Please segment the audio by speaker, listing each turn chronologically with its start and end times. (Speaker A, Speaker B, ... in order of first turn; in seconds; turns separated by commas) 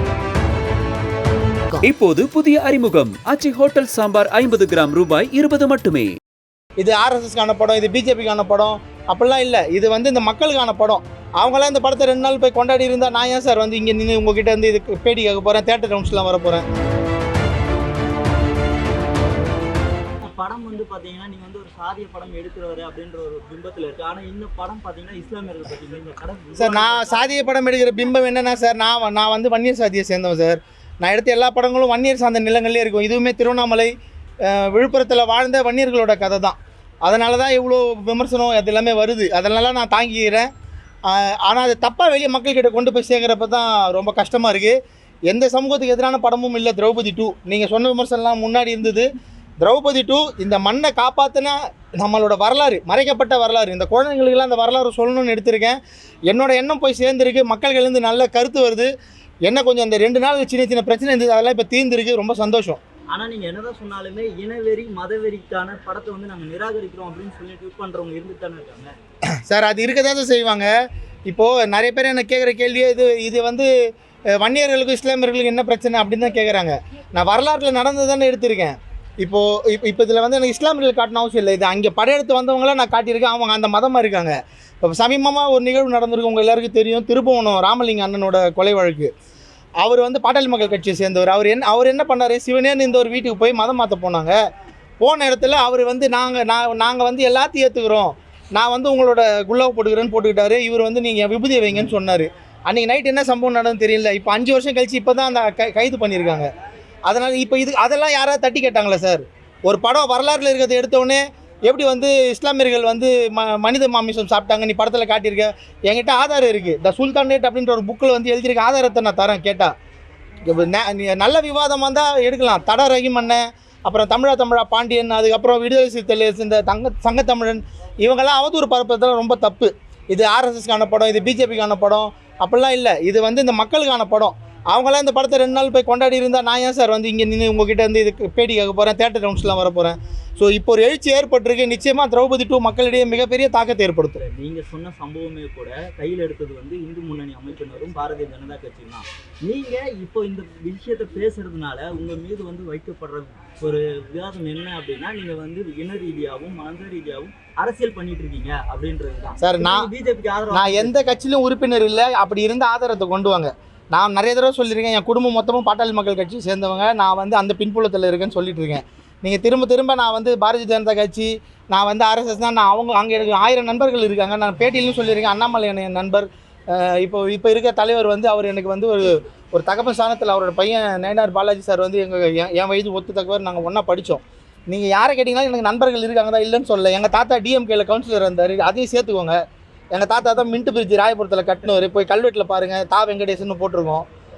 Speaker A: 1.8-6.1, Speaker B: 6.8-16.7, Speaker C: 20.2-27.5, Speaker B: 26.6-33.9, Speaker B: 34.5-40.5, Speaker B: 41.1-44.8, Speaker B: 45.3-49.1, Speaker B: 49.6-58.9, Speaker B: 59.5-62.8, Speaker C: 63.1-68.9, Speaker B: 69.5-70.7, Speaker B: 71.3-73.7, Speaker B: 74.3-89.1, Speaker B: 89.8-94.4, Speaker B: 95.0-106.5, Speaker B: 107.1-119.7, Speaker B: 120.5-144.2, Speaker C: 144.2-161.0, Speaker B: 159.4-159.9, Speaker B: 160.5-189.4, Speaker B: 189.9-194.1